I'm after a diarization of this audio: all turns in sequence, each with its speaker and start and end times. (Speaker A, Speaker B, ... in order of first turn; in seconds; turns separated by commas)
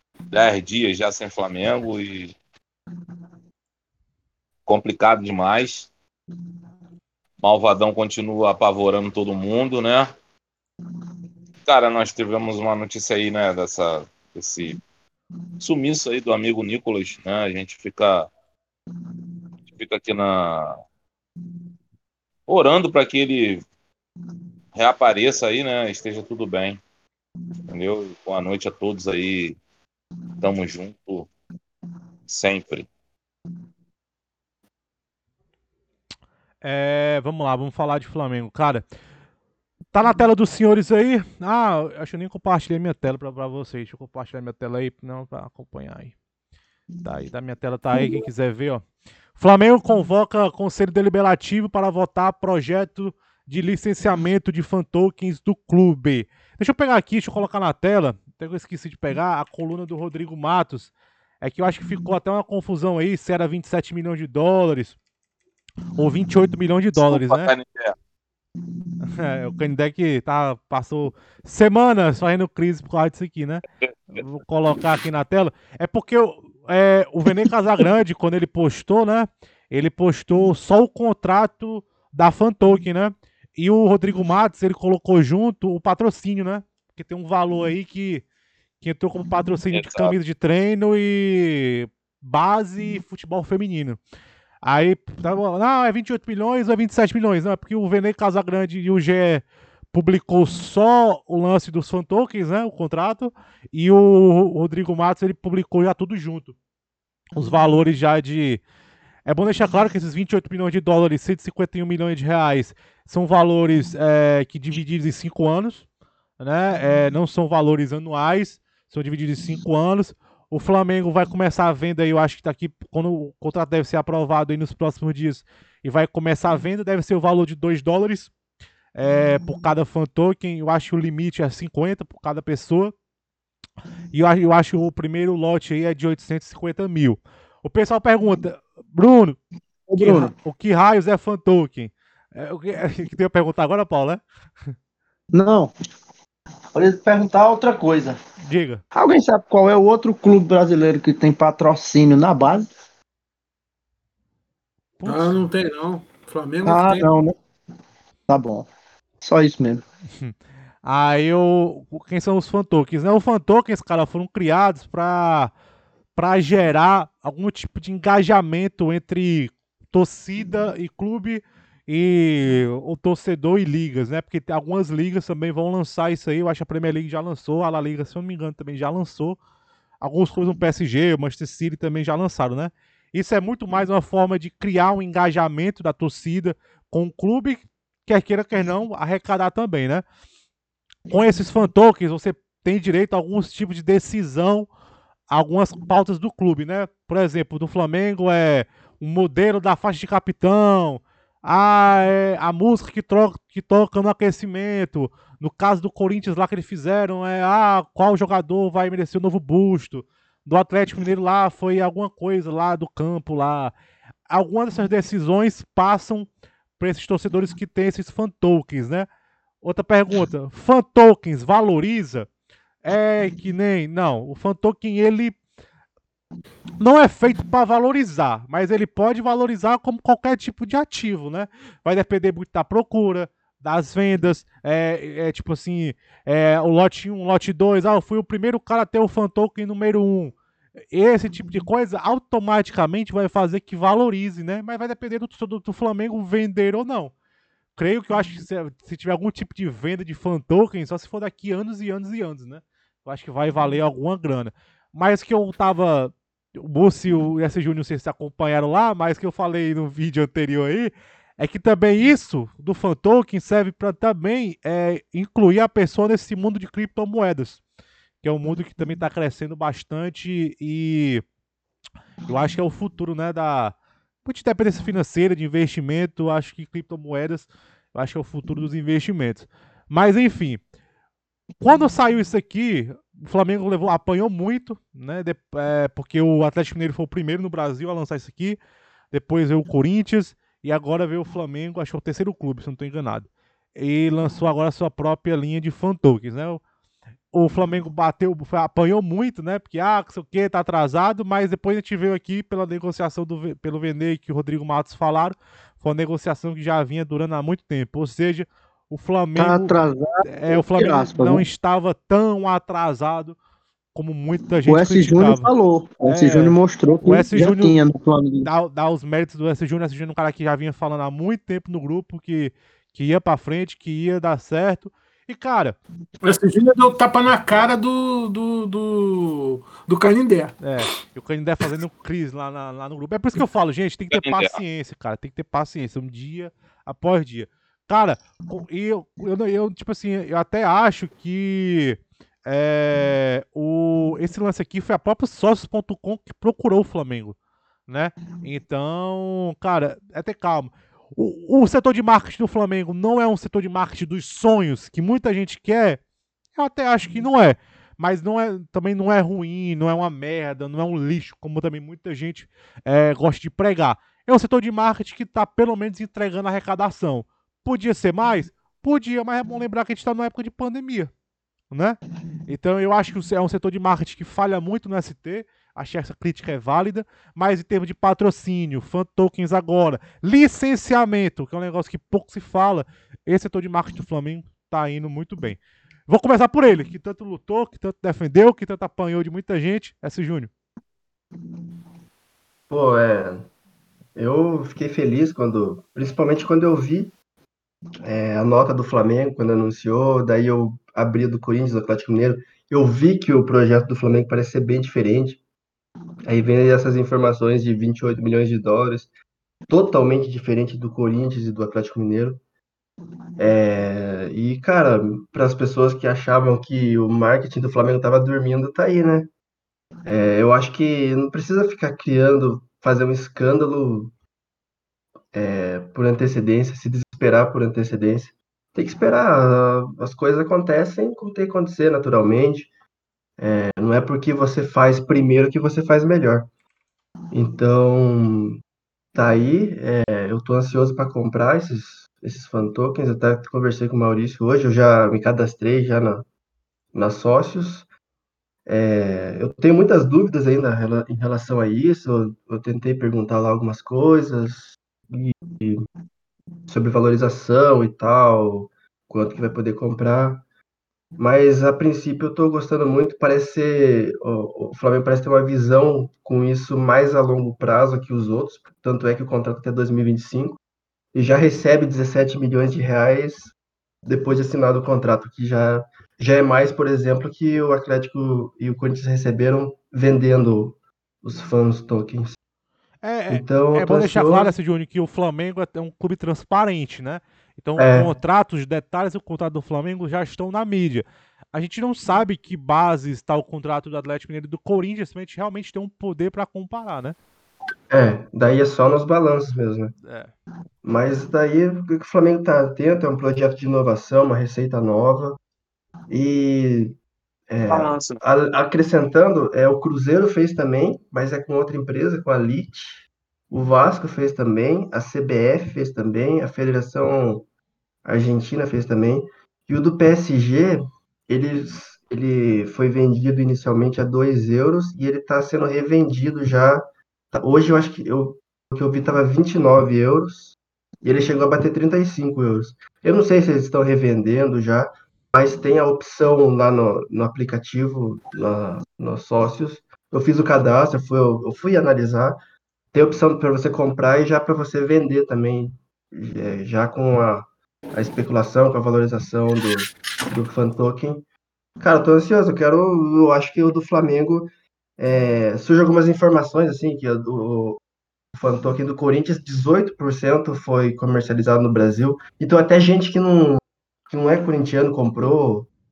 Speaker A: 0.3-2.4, Speaker A: 4.7-5.9, Speaker A: 7.4-10.1, Speaker A: 11.7-14.8, Speaker A: 15.6-18.3, Speaker A: 19.7-20.8, Speaker A: 22.5-23.6, Speaker A: 24.8-26.8, Speaker A: 27.7-29.6, Speaker A: 30.4-31.3, Speaker A: 32.3-32.9, Speaker B: 36.6-38.8, Speaker B: 39.9-46.1, Speaker B: 47.0-48.9, Speaker B: 49.4-65.0, Speaker B: 66.0-67.5, Speaker A: 67.0-68.0, Speaker B: 69.0-88.2, Speaker B: 88.8-94.0, Speaker A: 89.7-90.1, Speaker B: 94.6-106.5, Speaker B: 107.4-108.6, Speaker B: 109.3-115.8, Speaker B: 116.4-128.3, Speaker B: 128.9-132.9, Speaker B: 134.1-139.4, Speaker C: 139.9-140.3, Speaker B: 140.0-144.2, Speaker C: 145.3-145.7, Speaker C: 146.8-148.2, Speaker B: 148.4-148.8, Speaker C: 148.9-152.7, Speaker B: 155.0-155.4, Speaker D: 155.1-157.1, Speaker C: 156.7-157.3, Speaker C: 158.3-158.7, Speaker C: 159.2-159.8, Speaker B: 160.2-165.5, Speaker B: 166.2-179.4, Speaker B: 180.0-190.0, Speaker B: 191.1-194.7, Speaker B: 195.3-213.7, Speaker B: 214.3-219.1, Speaker B: 219.6-222.3, Speaker B: 222.8-225.4, Speaker B: 226.8-240.3, Speaker B: 240.9-247.1, Speaker B: 247.8-267.6, Speaker B: 268.2-271.2, Speaker B: 272.3-280.6, Speaker B: 281.6-288.6, Speaker B: 289.1-296.6, Speaker B: 297.3-313.4, Speaker C: 309.4-311.4, Speaker B: 313.9-315.5, Speaker C: 314.7-318.5, Speaker B: 316.1-317.8, Speaker B: 318.4-325.8, Speaker D: 326.2-330.6, Speaker B: 330.6-347.4, Speaker A: 334.1-334.6, Speaker B: 347.9-356.0, Speaker B: 356.6-371.1, Speaker B: 371.7-390.5, Speaker E: 392.7-393.5, Speaker E: 394.2-397.1, Speaker E: 398.0-405.4, Speaker E: 406.3-409.1, Speaker E: 409.7-412.4, Speaker E: 413.4-419.3, Speaker E: 420.1-424.1, Speaker E: 425.3-432.7, Speaker E: 433.4-436.5, Speaker E: 437.3-438.6, Speaker E: 439.1-446.3, Speaker E: 446.9-447.9, Speaker E: 448.7-455.9, Speaker E: 456.7-460.4, Speaker E: 461.2-470.6, Speaker E: 471.1-473.5, Speaker E: 474.1-482.4, Speaker B: 483.0-497.2, Speaker E: 483.3-484.5, Speaker E: 487.8-488.1, Speaker E: 497.9-500.0, Speaker B: 500.0-500.3, Speaker E: 500.8-505.4, Speaker E: 506.1-507.0, Speaker E: 507.5-517.5, Speaker A: 507.7-508.2, Speaker E: 518.0-542.4, Speaker E: 542.9-551.2, Speaker E: 551.8-557.8, Speaker E: 558.4-565.7